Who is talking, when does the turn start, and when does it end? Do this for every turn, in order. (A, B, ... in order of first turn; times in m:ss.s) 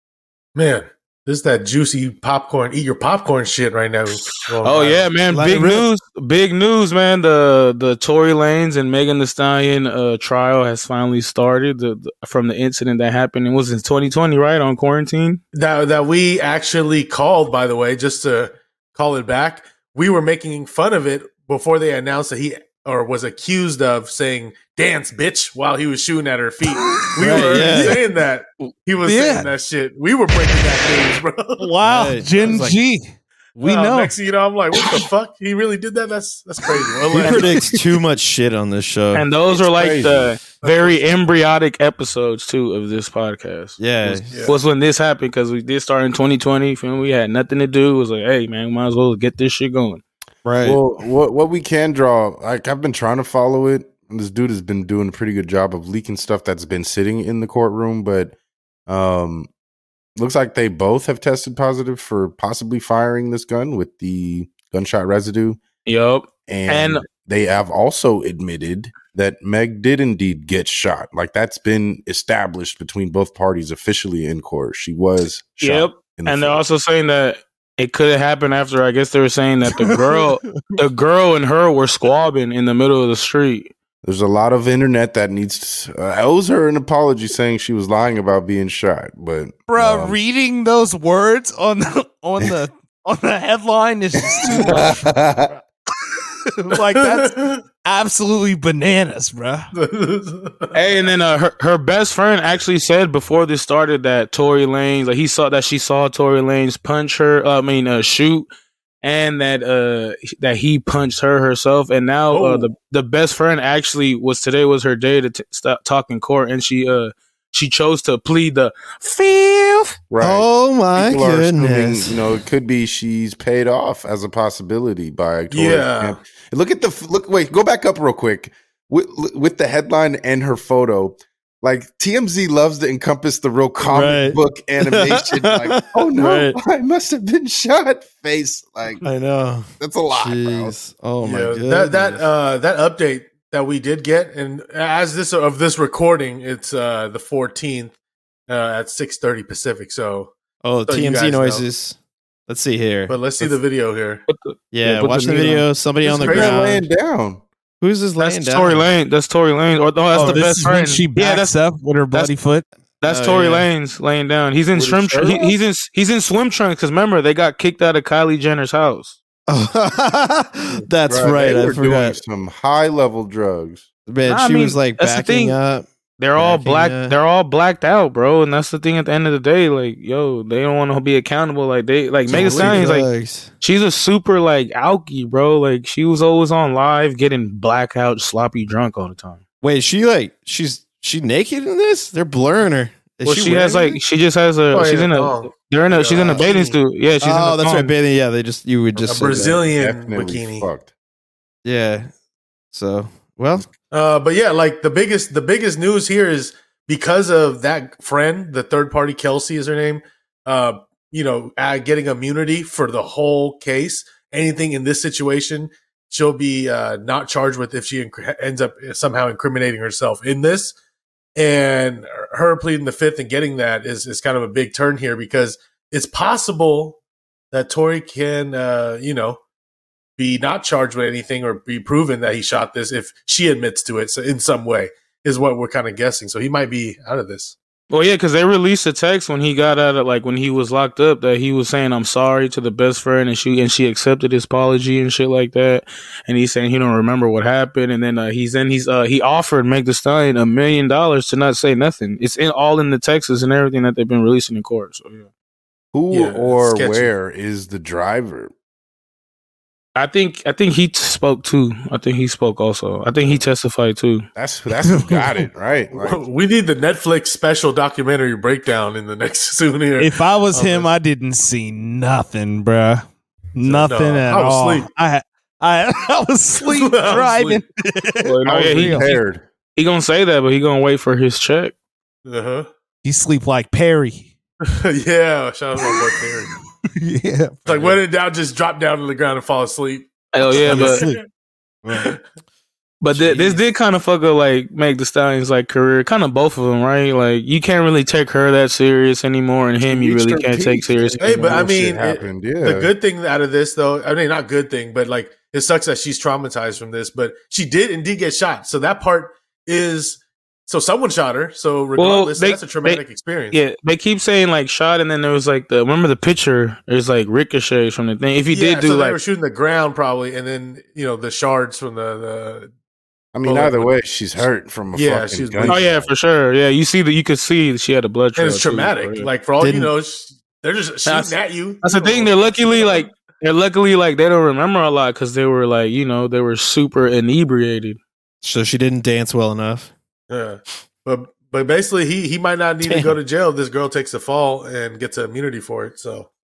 0:00.6-0:05.1 A
0:04.4-0:15.4 B
0:05.3-0:05.9 C
0:15.5-0:31.7 A
0:26.9-0:27.8 D
0:27.2-0:28.0 C
0:29.0-0:29.5 D
0:31.6-0:34.2 D
0:31.8-0:32.8 C
0:33.6-0:37.5 A
0:34.7-0:35.1 D
0:36.7-0:37.7 D
0:37.1-0:39.3 C
0:39.1-0:43.8 B
0:39.6-0:40.4 E
0:40.5-0:41.0 A
0:43.8-0:44.3 C
0:44.2-0:44.6 A
0:44.5-0:50.0 B
0:50.4-0:50.8 C
0:50.6-0:58.4 E
0:58.9-0:59.5 E
1:00.2-1:05.6 E
1:05.9-1:07.0 B
1:06.5-1:16.6 E
1:15.6-1:23.7 B
1:19.7-1:20.8 D
1:24.0-1:30.2 E
1:29.7-1:35.1 D
1:34.4-1:35.5 E
1:36.6-1:39.7 D
1:36.7-1:37.7 A
1:39.7-1:40.8 A
1:40.7-1:48.5 B
1:49.0-2:00.0 B
1:52.3-1:52.7 A
2:00.1-2:19.0 E
2:00.2-2:02.2 C
2:05.5-2:06.2 A
2:13.8-2:16.6 C
2:19.0-2:22.3 C
2:19.8-2:20.8 E
2:21.2-2:27.9 A
2:28.5-2:30.3 A
2:30.6-2:32.0 C
2:30.9-2:31.7 A
2:32.5-2:33.6 C
2:33.1-2:34.2 A
2:34.3-2:35.6 B
2:34.7-2:36.8 C
2:36.0-2:36.6 A
2:36.2-2:37.4 E
2:37.8-2:38.8 C
2:38.2-2:41.6 B
2:40.1-2:42.6 D
2:40.2-2:40.5 C
2:43.0-2:49.2 B
2:43.0-2:43.7 C
2:44.7-2:45.6 E
2:49.5-2:52.2 C
2:51.1-2:53.9 E
2:54.1-2:57.2 C
2:54.3-2:55.6 B
2:56.2-3:03.1 B
3:02.3-3:03.5 C
3:03.6-3:09.4 B
3:09.6-3:14.0 C
3:13.2-3:17.9 B
3:14.7-3:16.8 A
3:17.2-3:19.7 C
3:19.0-3:20.7 A
3:19.8-3:20.9 E
3:21.6-3:22.1 C
3:22.7-3:23.7 C
3:23.9-3:40.8 A
3:41.4-3:47.0 A
3:47.5-3:49.4 A
3:50.2-3:57.6 A
3:57.9-4:15.2 B
4:15.9-4:18.5 E
4:16.1-4:17.1 A
4:20.0-4:24.3 B
4:24.4-4:26.2 E
4:24.8-4:25.5 D
4:25.9-4:30.9 A
4:30.0-4:33.0 D
4:33.6-4:39.1 D
4:33.6-4:34.9 A
4:36.6-4:37.6 A
4:38.2-4:39.2 B
4:38.4-4:39.4 E
4:39.8-4:41.7 B
4:42.2-4:42.7 A
4:43.0-4:44.3 D
4:44.6-4:46.5 A
4:45.8-4:46.1 D
4:47.0-4:48.0 D
4:47.7-4:51.2 A
4:50.3-4:51.0 B
4:50.5-4:51.2 D
4:51.8-4:52.1 D
4:51.9-4:52.2 A
4:53.0-5:01.6 B
4:53.3-4:53.6 A
4:59.8-5:02.9 E
5:01.2-5:13.6 A
5:12.0-5:19.2 B
5:18.5-5:22.7 A
5:23.3-5:26.1 E
5:23.4-5:23.9 A
5:24.9-5:25.8 A
5:25.6-5:29.3 B
5:28.4-5:33.0 A
5:29.6-5:29.9 C
5:31.1-5:38.0 B
5:38.4-5:39.9 C
5:40.3-5:46.3 A
5:42.8-5:43.2 C